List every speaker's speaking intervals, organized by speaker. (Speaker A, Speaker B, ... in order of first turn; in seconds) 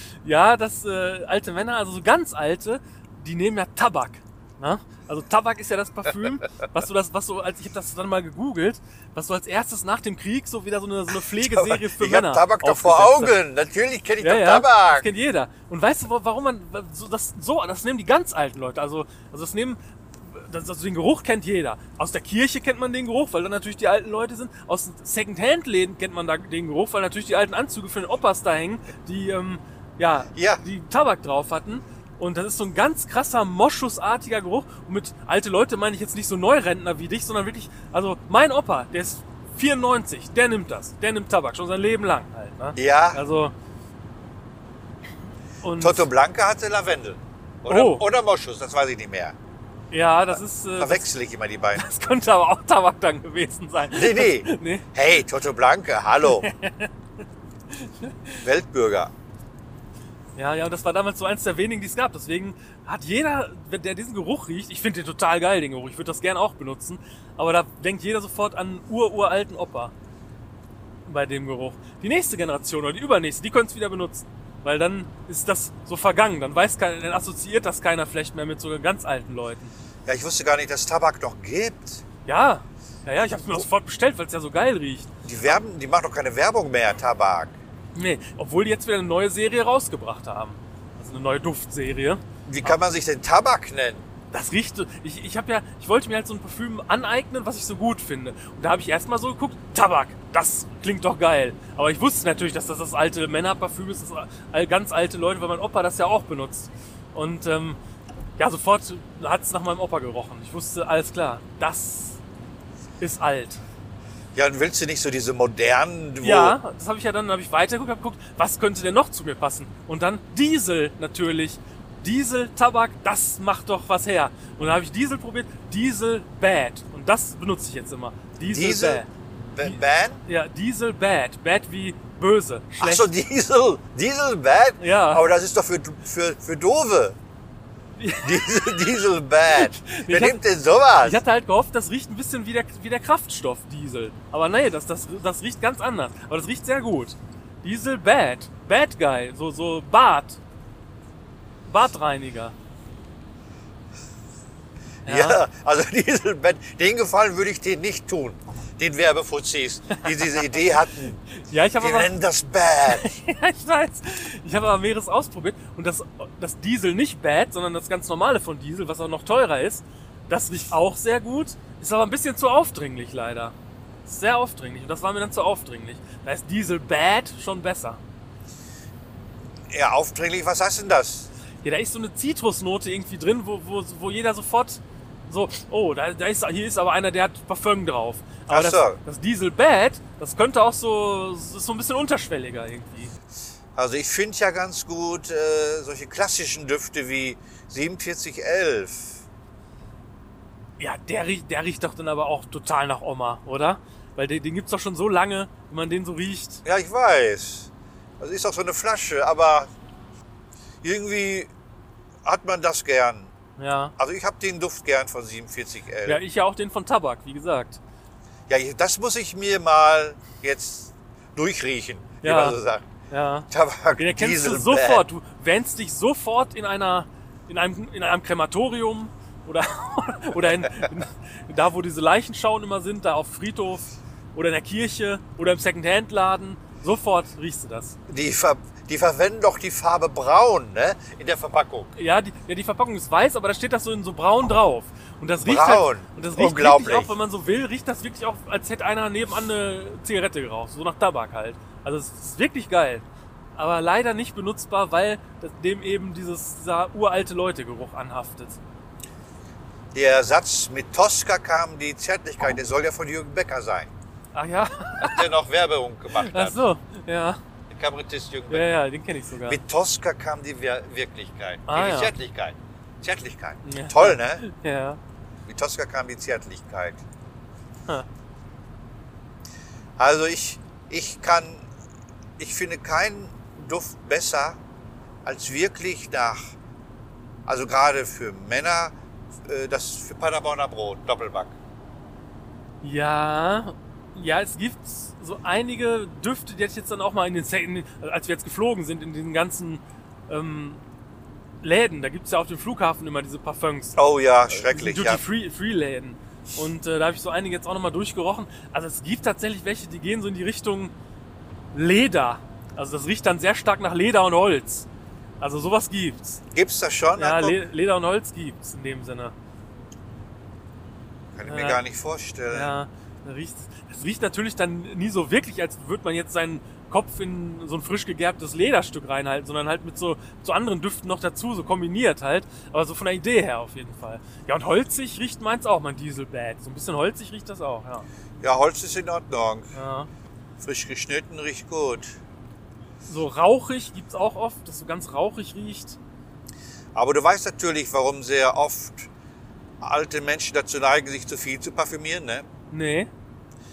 Speaker A: 0.2-13.3, 14.2-43.5, 45.6-46.1, 47.7-48.0, 49.9-51.1, 51.7-54.9, 56.2-56.9, 57.7-58.4, 60.4-69.9, 71.0-79.7, 82.2-85.1, 87.9-92.8, 94.3-107.8, 108.4-112.2, 113.0-113.6, 116.2-129.1, 129.6-133.1, 134.8-135.2, 138.0-138.9, 139.5-140.4, 141.0-150.4, 151.6-152.5, 155.1-155.4, 160.0-160.6, 161.4-162.1, 162.8-173.5, 174.1-178.0, 181.6-193.1, 200.8-206.6, 213.6-213.9, 216.1-217.8, 222.2-222.6, 223.1-238.0, 242.0-253.0, 253.6-258.6, 264.3-265.3, 266.1-267.4, 268.5-269.6, 271.7-272.1, 273.6-275.0, 292.8-300.8, 301.6-304.0, 304.5-310.9, 311.7-314.9, 315.4-316.4, 317.1-319.3, 321.4-321.8, 322.5-338.1, 339.7-340.1, 343.1-346.0, 352.7-353.1
Speaker B: 11.4-15.1, 30.3-30.6, 42.8-43.2, 45.8-49.3, 50.8-51.9, 53.9-56.5, 58.4-59.1, 80.0-82.0, 85.2-87.6, 92.5-94.0, 114.3-116.6, 128.4-130.2, 132.8-137.2, 138.2-141.2, 155.1-161.2, 161.8-163.1, 179.7-181.3, 188.5-189.0, 193.8-199.2, 206.6-209.7, 210.8-211.5, 212.2-213.3, 214.0-216.2, 218.5-222.9, 223.5-225.0, 238.1-241.9, 245.4-247.1, 259.9-263.9, 265.0-266.6, 267.7-268.7, 269.5-274.4, 275.5-277.0, 280.0-281.6, 282.4-284.6, 285.2-286.5, 287.4-288.9, 289.4-291.6, 303.9-305.2, 316.5-317.6, 321.3-322.7, 338.4-339.7, 340.6-342.2, 346.9-349.1, 349.8-352.5